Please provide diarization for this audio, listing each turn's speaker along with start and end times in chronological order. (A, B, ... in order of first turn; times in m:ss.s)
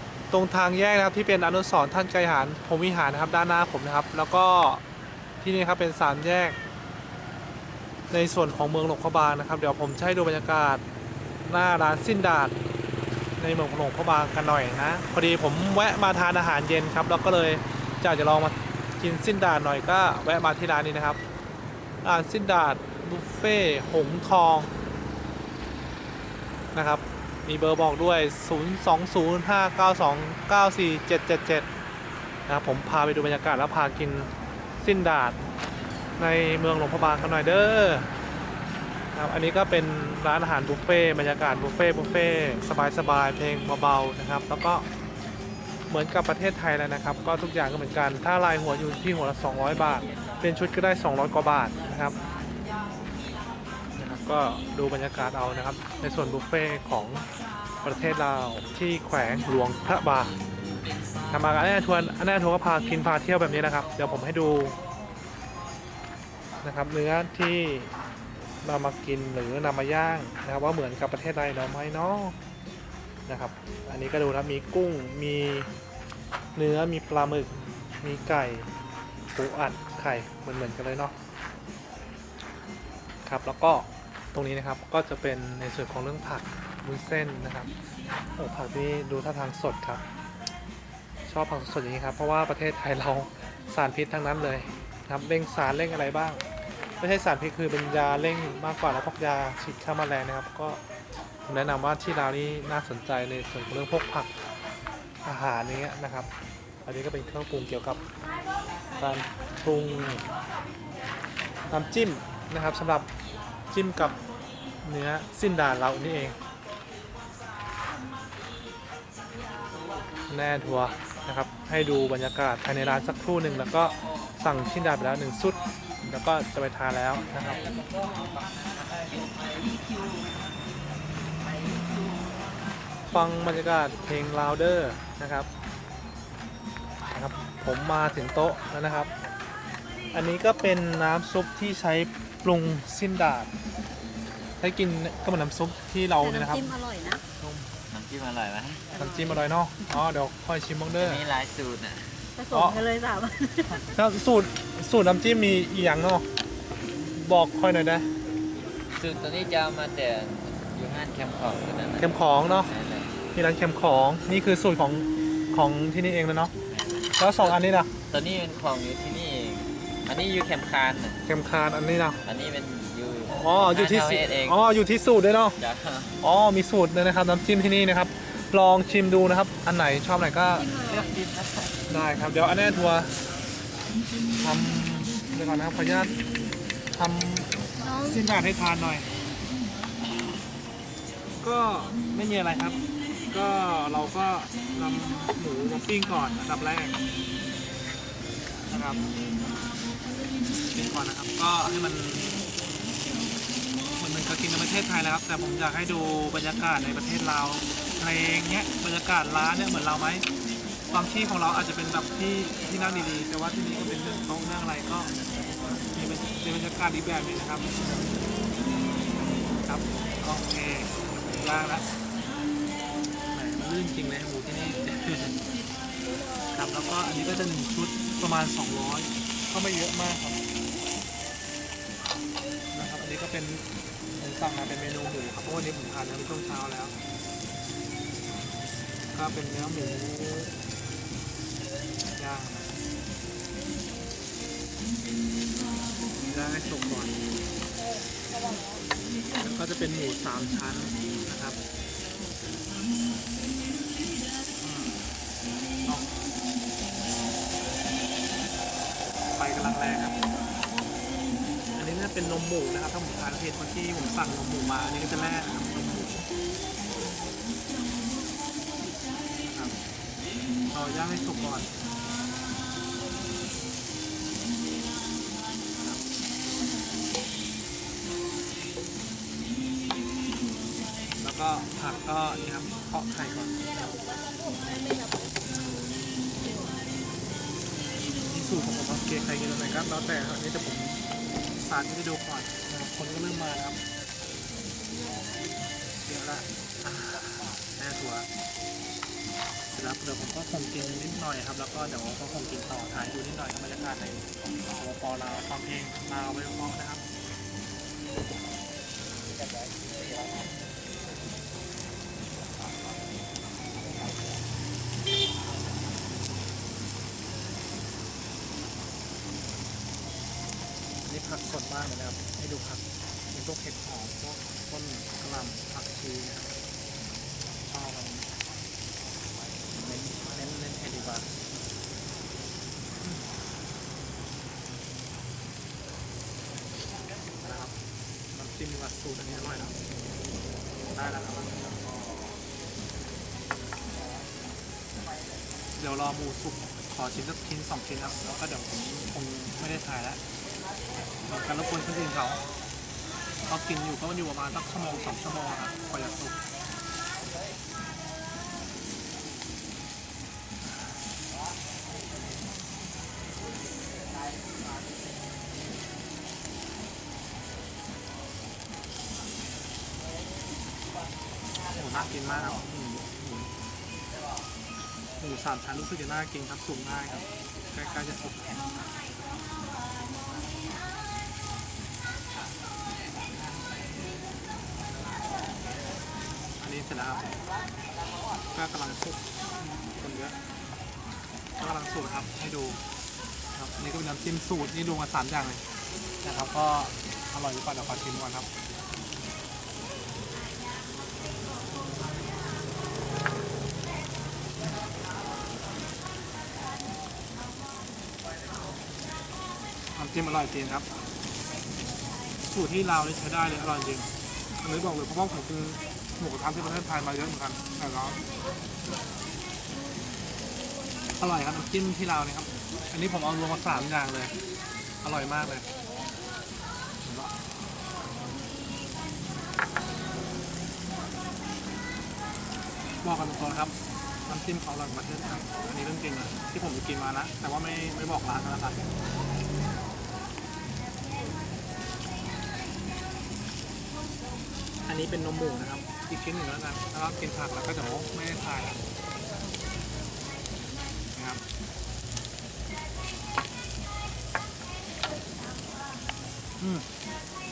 0:00.3-0:04.8 A
0:05.4-0:06.6 A
0:08.1-0:10.8 A
0:11.4-0:12.6 A
0:13.4-0:21.2 A
0:22.0-0:24.7 A
0:26.7-0:31.7 A
0:32.5-0:35.4 A
0:36.2-0:38.1 A
0:39.1-0:44.8 A
0:45.9-0:52.2 A
0:54.0-0:57.2 A
0:57.8-1:00.4 A
1:01.3-1:04.8 A
1:06.6-1:07.9 A
1:08.6-1:12.4 A
1:13.3-1:15.7 A
1:16.5-1:18.7 A
1:19.3-1:21.1 A
1:23.2-1:27.7 A
1:28.4-1:30.0 A
1:31.2-1:36.4 A
1:37.0-1:40.8 A
1:41.4-1:44.3 A
1:45.2-1:46.3 A
1:46.8-1:48.0 A
1:49.0-1:50.2 A
1:51.7-1:53.1 A
1:53.7-1:54.2 A
1:54.8-1:56.4 A
2:00.3-2:07.6 A
2:07.4-2:10.1 B
2:13.1-2:15.5 A
2:17.1-2:19.1 A
2:20.1-2:23.5 A
2:24.6-2:26.7 A
2:26.2-2:27.2 C
2:27.4-2:27.7 A
2:27.9-2:29.0 B
2:29.0-2:31.2 A
2:29.0-2:29.4 C
2:30.9-2:32.3 B
2:32.4-2:33.9 C
2:32.5-2:32.8 A
2:33.7-2:36.3 A
2:37.0-2:38.1 A
2:39.0-2:43.2 B
2:42.0-2:42.7 A
2:43.3-2:46.5 A
2:46.7-2:51.2 B
2:47.2-2:47.9 A
2:51.2-2:52.2 A
2:52.2-2:54.6 B
2:53.3-2:55.6 A
2:55.6-2:56.2 B
2:56.2-3:00.7 A
3:00.6-3:01.1 C
3:00.7-3:01.7 B
3:01.9-3:03.1 A
3:04.4-3:06.2 A
3:06.9-3:09.1 A
3:07.8-3:08.2 C
3:11.4-3:17.0 A
3:18.7-3:19.0 A
3:20.7-3:22.5 A
3:24.0-3:30.2 A
3:30.9-3:35.1 A
3:35.9-3:37.7 A
3:39.6-3:41.9 A
3:43.3-3:45.4 A
3:46.5-3:50.4 A
3:52.7-3:56.9 A
3:59.1-4:00.5 A
4:02.2-4:02.8 A
4:06.2-4:07.2 A
4:08.4-4:08.7 C
4:09.4-4:11.6 A
4:14.6-4:15.0 A
4:15.8-4:16.1 A
4:19.3-4:20.2 A
4:21.7-4:26.3 A
4:29.4-4:29.8 A
4:30.7-4:31.7 A
4:41.2-4:44.0 A
4:44.9-4:45.2 C
4:48.2-4:53.8 A
4:56.0-4:58.3 A
4:59.7-5:07.0 A
5:21.0-5:26.5 A
5:27.7-5:28.3 A
5:29.7-5:31.3 A
5:33.0-5:33.3 A
5:37.4-5:37.7 A
5:38.3-5:39.7 A
5:40.9-5:41.7 A
5:45.8-5:50.2 A
5:51.3-5:52.4 A
5:53.4-5:56.4 A
6:11.7-6:13.5 A
6:15.2-6:18.6 A
6:26.6-6:27.3 A
6:28.5-6:30.4 A
6:31.6-6:32.8 A
6:33.5-6:35.6 A
6:36.2-6:38.5 A
6:49.9-6:50.9 A
6:52.4-6:54.1 A
6:54.6-6:58.2 A
7:01.2-7:04.3 A
7:05.0-7:05.7 A
7:07.0-7:07.3 A
7:13.0-7:13.8 A
7:14.3-7:18.9 A
7:24.8-7:28.8 A
7:31.1-7:31.4 A
7:36.6-7:36.9 A